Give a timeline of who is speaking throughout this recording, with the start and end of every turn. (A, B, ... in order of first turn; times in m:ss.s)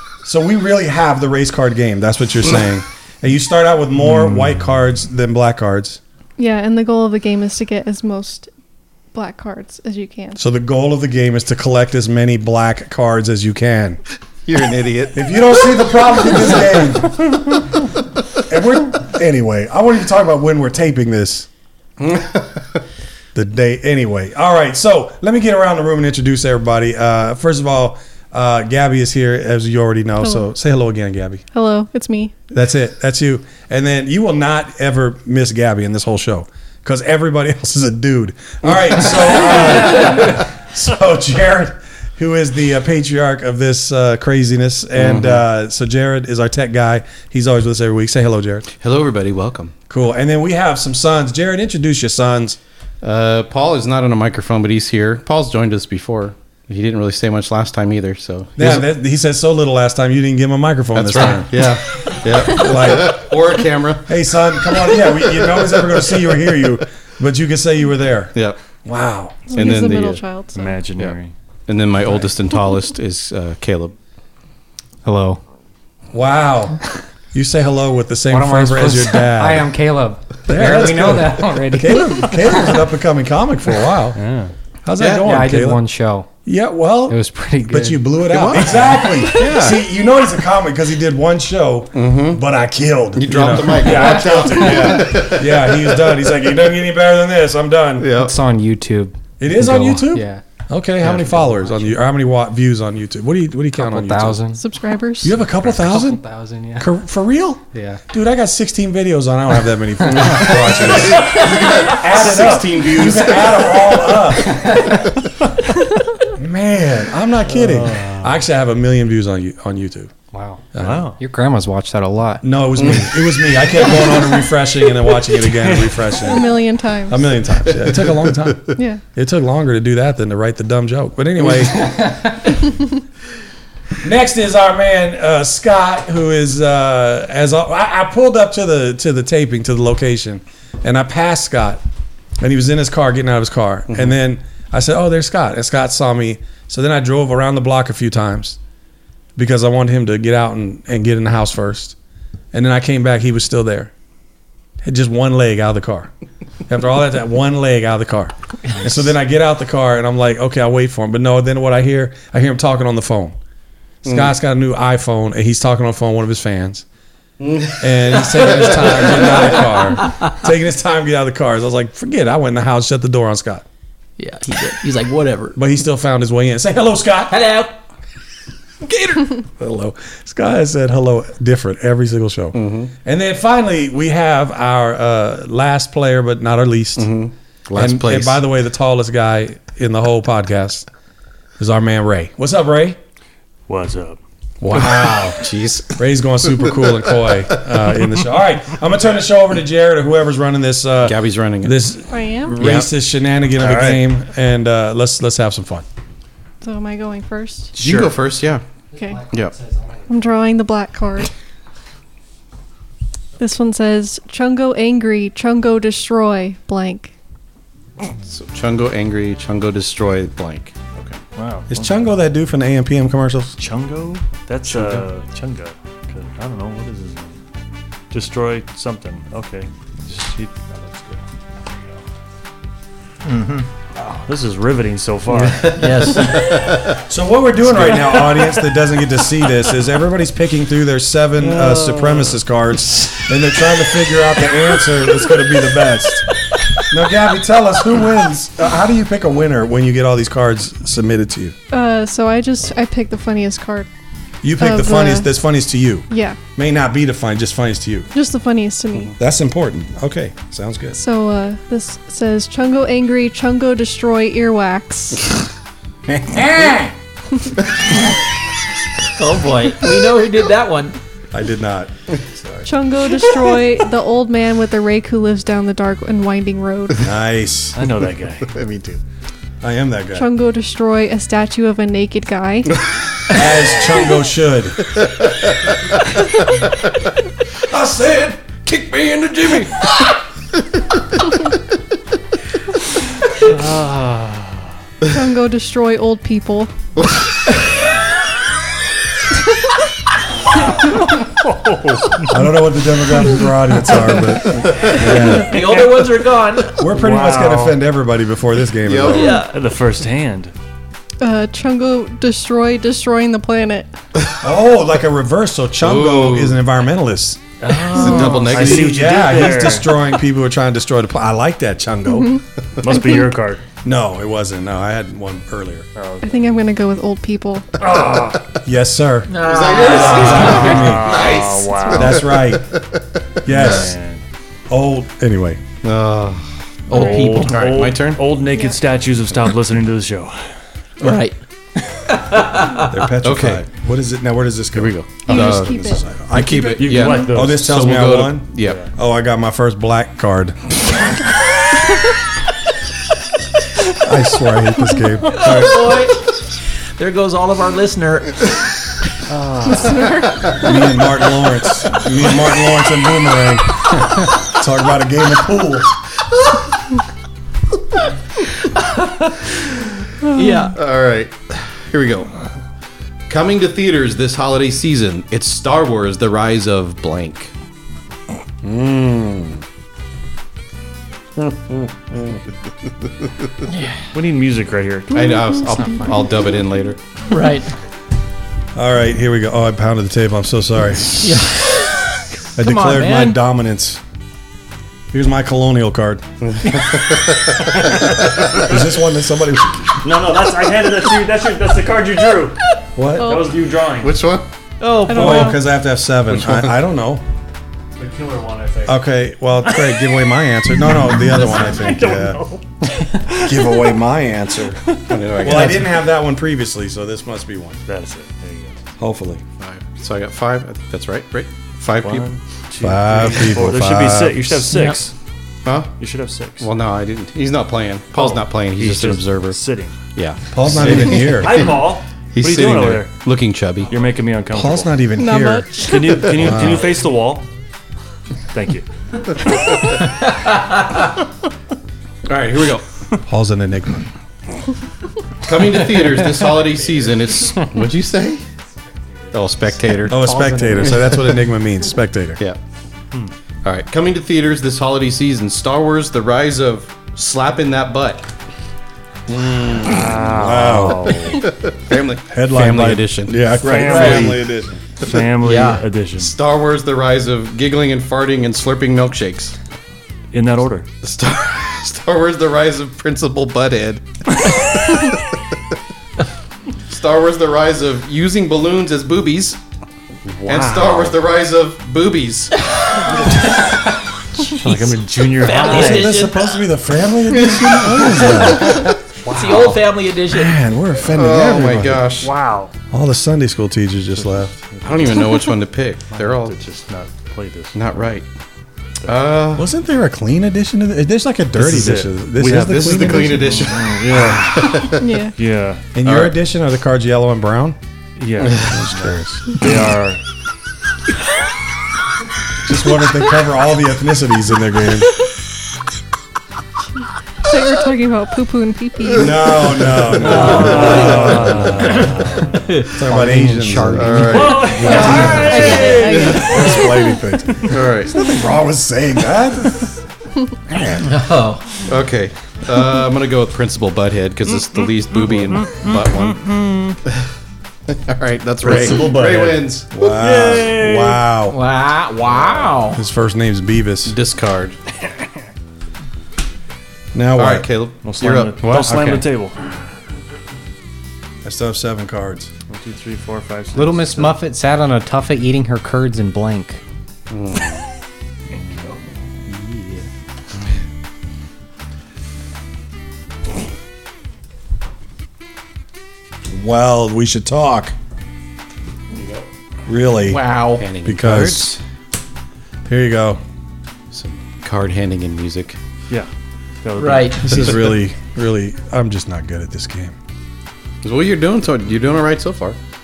0:00.2-0:06.0 A
0:06.4-0:08.5 B
0:09.1-0:10.4 B
0:10.4-0:14.0 A
0:14.5-0:16.8 C
0:15.1-0:17.2 A
0:18.5-0:21.5 A
0:22.0-0:22.8 C
0:23.3-0:31.4 A
0:31.5-0:32.3 B
0:32.5-0:48.7 A
0:45.0-0:45.4 C
0:48.8-0:49.7 C
0:49.9-0:52.6 A
0:53.0-0:58.8 C
0:58.6-1:03.3 A
1:00.9-1:06.4 C
1:04.1-1:09.6 A
1:09.5-1:10.8 B
1:09.5-1:10.2 C
1:10.6-1:11.3 D
1:11.7-1:14.0 C
1:15.0-1:15.4 E
1:16.1-1:16.8 A
1:17.3-1:19.7 A
1:18.3-1:22.8 E
1:20.5-1:24.2 A
1:24.2-1:24.5 D
1:24.8-1:25.8 A
1:25.0-1:25.3 C
1:25.2-1:26.3 E
1:26.4-1:38.1 A
1:27.1-1:28.1 E
1:28.2-1:29.8 C
1:31.9-1:32.4 C
1:33.2-1:36.4 C
1:38.0-1:38.4 C
1:38.1-1:40.4 E
1:39.4-1:44.4 A
1:41.1-1:41.9 E
1:43.8-1:44.6 E
1:44.6-1:45.4 B
1:45.2-1:46.2 A
1:45.6-1:46.9 E
1:46.8-1:54.8 A
1:47.7-1:48.0 E
1:50.1-1:50.8 E
1:50.4-1:54.0 C
1:54.5-1:54.8 E
1:56.4-2:00.1 A
1:57.5-1:58.4 D
2:00.3-2:02.4 E
2:00.7-2:01.1 A
2:00.8-2:01.2 D
2:02.4-2:06.6 A
2:05.6-2:06.0 D
2:06.2-2:07.3 B
2:07.1-2:12.0 A
2:08.8-2:09.0 B
2:11.8-2:12.3 E
2:14.0-2:21.8 A
2:22.4-2:28.6 A
2:29.4-2:32.0 A
2:32.5-2:33.9 A
2:34.8-2:36.1 A
2:36.7-2:43.4 A
2:44.0-2:46.8 A
2:44.1-2:44.3 C
2:47.4-2:49.8 C
2:47.8-2:53.6 A
2:50.0-2:50.3 F
2:54.2-2:55.6 F
2:55.6-2:57.4 A
2:57.3-2:57.8 F
2:58.9-3:07.1 A
3:02.5-3:02.9 C
3:07.0-3:08.4 C
3:07.8-3:10.9 A
3:11.6-3:13.0 A
3:13.7-3:14.2 D
3:14.6-3:25.8 A
3:14.7-3:16.0 C
3:21.0-3:21.8 C
3:22.1-3:22.6 B
3:22.6-3:22.9 C
3:23.6-3:24.0 D
3:26.6-3:27.7 B
3:27.8-3:28.6 C
3:29.0-3:29.2 B
3:29.0-3:30.0 E
3:29.3-3:29.6 C
3:30.1-3:31.3 B
3:33.4-3:37.1 B
3:38.2-3:41.2 C
3:41.4-3:42.0 D
3:41.7-3:43.6 A
3:43.6-3:47.4 D
3:44.7-3:45.1 C
3:48.1-3:51.2 D
3:53.2-3:53.7 F
3:54.0-3:56.1 D
3:55.3-3:57.0 C
3:55.7-3:56.6 F
3:57.0-4:11.6 A
3:57.7-3:58.7 D
4:01.4-4:02.4 D
4:11.7-4:13.9 B
4:14.4-4:18.1 A
4:14.6-4:15.3 B
4:16.1-4:16.4 B
4:18.1-4:19.2 B
4:19.2-4:21.0 A
4:20.9-4:25.3 B
4:26.1-4:26.9 A
4:29.2-4:31.0 F
4:31.3-4:32.7 A
4:32.6-4:37.1 B
4:37.0-4:37.8 A
4:37.7-4:38.6 D
4:38.5-4:39.0 C
4:39.6-4:40.3 A
4:40.1-4:42.8 B
4:43.3-4:44.9 A
4:47.6-4:48.6 A
4:48.6-4:49.9 C
4:53.3-4:54.7 D
4:55.0-4:56.7 B
5:00.8-5:02.4 D
5:02.3-5:05.7 A
5:04.5-5:05.0 C
5:05.0-5:06.0 D
5:05.3-5:06.8 F
5:06.8-5:09.4 A
5:06.8-5:07.8 D
5:08.8-5:09.4 C
5:09.1-5:09.5 F
5:09.4-5:10.5 D
5:11.2-5:13.9 B
5:14.4-5:17.4 A
5:15.8-5:16.6 C
5:17.6-5:20.0 D
5:17.7-5:19.8 C
5:18.0-5:22.4 A
5:22.8-5:23.6 D
5:23.8-5:25.9 A
5:26.0-5:26.5 D
5:26.2-5:27.8 B
5:27.8-5:28.5 D
5:28.6-5:31.2 A
5:29.3-5:31.6 F
5:29.4-5:31.4 C
5:30.4-5:32.3 D
5:31.9-5:32.7 A
5:32.0-5:33.8 C
5:33.4-5:34.0 A
5:33.5-5:34.2 D
5:34.7-5:35.6 A
5:35.8-5:36.5 C
5:36.9-5:37.7 F
5:36.9-5:37.3 B
5:36.9-5:40.4 D
5:37.3-5:38.2 C
5:38.5-5:38.8 B
5:41.0-5:41.4 F
5:42.1-5:42.9 F
5:42.8-5:50.6 A
5:43.2-5:43.6 C
5:44.7-5:48.9 C
5:45.2-5:46.0 B
5:46.6-5:47.8 D
5:48.6-5:48.9 D
5:54.0-5:55.9 A
5:55.3-5:56.3 F
5:57.0-5:58.5 F
5:59.3-6:00.1 D
5:59.8-6:00.3 B
6:00.5-6:05.9 A
6:08.6-6:09.6 F
6:10.2-6:10.8 F
6:10.7-6:12.3 C
6:13.3-6:17.5 C
6:18.6-6:19.6 A
6:21.4-6:22.4 A
6:23.7-6:24.0 F
6:24.1-6:25.5 D
6:25.1-6:27.0 C
6:27.3-6:27.7 F
6:28.8-6:31.5 A
6:31.2-6:33.4 F
6:32.6-6:34.0 A
6:35.1-6:36.2 A
6:36.4-6:38.1 C
6:38.0-6:38.9 D
6:38.4-6:40.0 A
6:40.0-6:42.6 D
6:43.0-6:43.4 A
6:43.2-6:44.2 D
6:43.2-6:43.4 B
6:44.0-6:44.5 C
6:44.8-6:45.6 F
6:45.1-6:45.6 B
6:45.1-6:47.2 A
6:46.3-6:46.7 C
6:48.0-6:49.0 D
6:48.9-6:52.4 A
6:49.6-6:50.1 D
6:50.8-6:53.9 D
6:53.3-6:54.8 A
6:54.9-6:55.1 D
6:55.1-6:55.9 C
6:55.3-6:57.8 A
6:57.9-6:58.8 D
6:59.0-6:59.4 A
6:59.6-7:02.3 C
7:02.0-7:05.1 D
7:02.8-7:04.7 A
7:04.7-7:05.0 F
7:05.6-7:05.9 C
7:06.0-7:06.7 D
7:06.6-7:09.6 C
7:08.1-7:10.0 D
7:10.2-7:11.8 C
7:10.5-7:11.7 A
7:10.8-7:13.1 D
7:12.3-7:13.9 C
7:13.9-7:14.9 D
7:14.5-7:17.0 A
7:15.2-7:16.3 B
7:15.8-7:17.5 D
7:18.5-7:18.9 D
7:20.0-7:21.1 F
7:22.3-7:22.8 C
7:23.2-7:24.1 A
7:25.4-7:28.4 C
7:29.3-7:30.2 C
7:30.1-7:31.0 E
7:30.1-7:32.4 A
7:33.6-7:38.3 C
7:39.3-7:41.2 A
7:39.8-7:41.5 D
7:41.4-7:44.3 C
7:42.3-7:44.7 A
7:43.6-7:44.5 D
7:43.8-7:44.3 F
7:45.0-7:46.4 D
7:45.4-7:45.8 F
7:46.2-7:49.6 C
7:50.3-7:50.9 D
7:51.0-7:55.3 C
7:56.9-7:59.6 C
8:00.4-8:02.6 C
8:00.5-8:00.8 A
8:00.5-8:01.0 D
8:04.4-8:06.2 D
8:05.4-8:06.6 F
8:05.6-8:09.0 A
8:09.2-8:09.8 D
8:09.3-8:10.6 F
8:10.3-8:12.1 A
8:11.1-8:12.3 C
8:12.2-8:12.7 D
8:12.9-8:14.6 A
8:14.2-8:15.4 D
8:14.8-8:16.6 C
8:16.1-8:17.9 D
8:17.8-8:18.3 C
8:19.0-8:19.7 C
8:19.6-8:23.8 A
8:21.6-8:25.8 D
8:22.5-8:25.0 C
8:24.9-8:25.4 B
8:26.0-8:27.8 A
8:26.0-8:26.4 C
8:28.2-8:30.2 D
8:28.6-8:29.6 A
8:32.6-8:35.1 A
8:37.4-8:39.8 B
8:39.1-8:42.3 A
8:39.7-8:41.8 C
8:40.2-8:42.6 D
8:40.4-8:41.3 F
8:42.5-8:43.0 F
8:42.8-8:50.0 A
8:43.0-8:44.9 E
8:44.0-8:46.5 C
8:44.2-8:46.9 D
8:44.8-8:47.2 B
8:47.7-8:48.3 C
8:50.7-8:51.2 A
8:51.0-8:51.8 F
8:51.8-8:56.5 C
8:55.2-8:57.0 D
8:57.9-8:59.9 C
8:58.6-9:01.6 A
8:58.6-9:01.3 D
9:01.5-9:03.0 F
9:02.4-9:02.6 D
9:02.9-9:04.2 A
9:04.1-9:04.8 C
9:07.1-9:07.7 A
9:07.4-9:09.2 C
9:08.0-9:09.6 D
9:08.9-9:09.2 E
9:11.4-9:12.5 A
9:12.7-9:14.4 D
9:13.8-9:16.8 E
9:17.3-9:17.8 C
9:19.5-9:20.1 E
9:26.5-9:28.0 A
9:29.9-9:30.4 A
9:30.3-9:30.9 F
9:30.8-9:31.8 C
9:31.0-9:31.8 A
9:32.8-9:33.4 A
9:34.1-9:35.8 C
9:36.8-9:37.7 D
9:37.0-9:37.5 F
9:37.4-9:40.2 A
9:41.0-9:42.8 C